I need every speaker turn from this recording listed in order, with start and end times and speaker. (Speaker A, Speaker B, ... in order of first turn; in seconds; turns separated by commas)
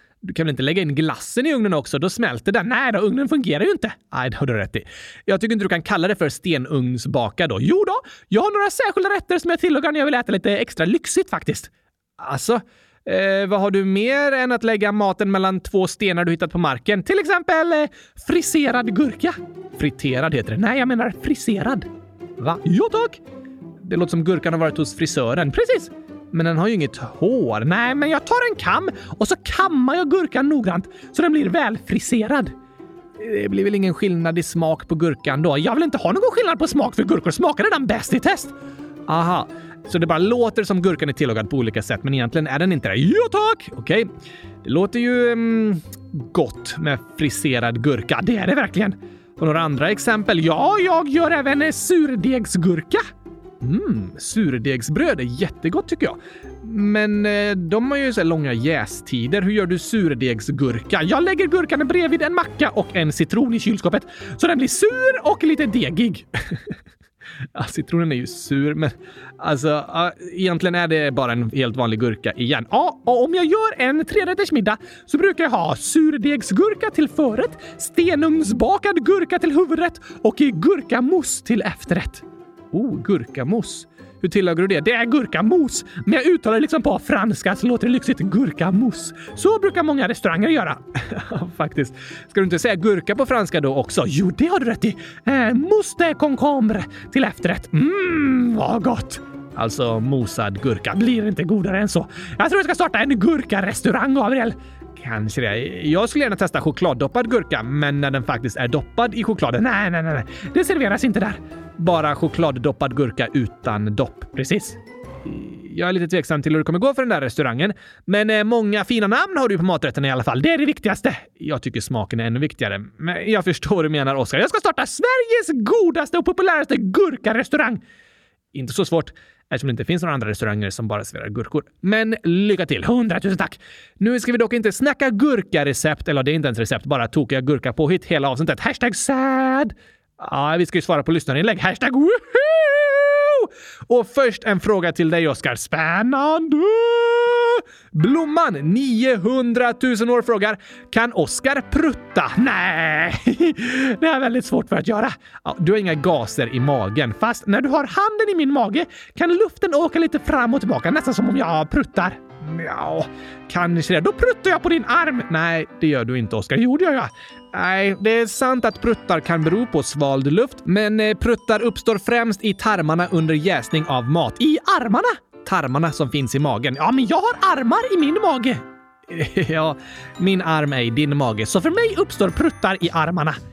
Speaker A: 0.2-21.9, Speaker A: 22.4-23.2, Speaker A: 23.8-32.5, Speaker A: 33.2-38.5, Speaker A: 39.1-44.1, Speaker A: 44.6-53.0, Speaker A: 53.6-66.6, Speaker A: 67.5-127.8, Speaker A: 128.5-183.4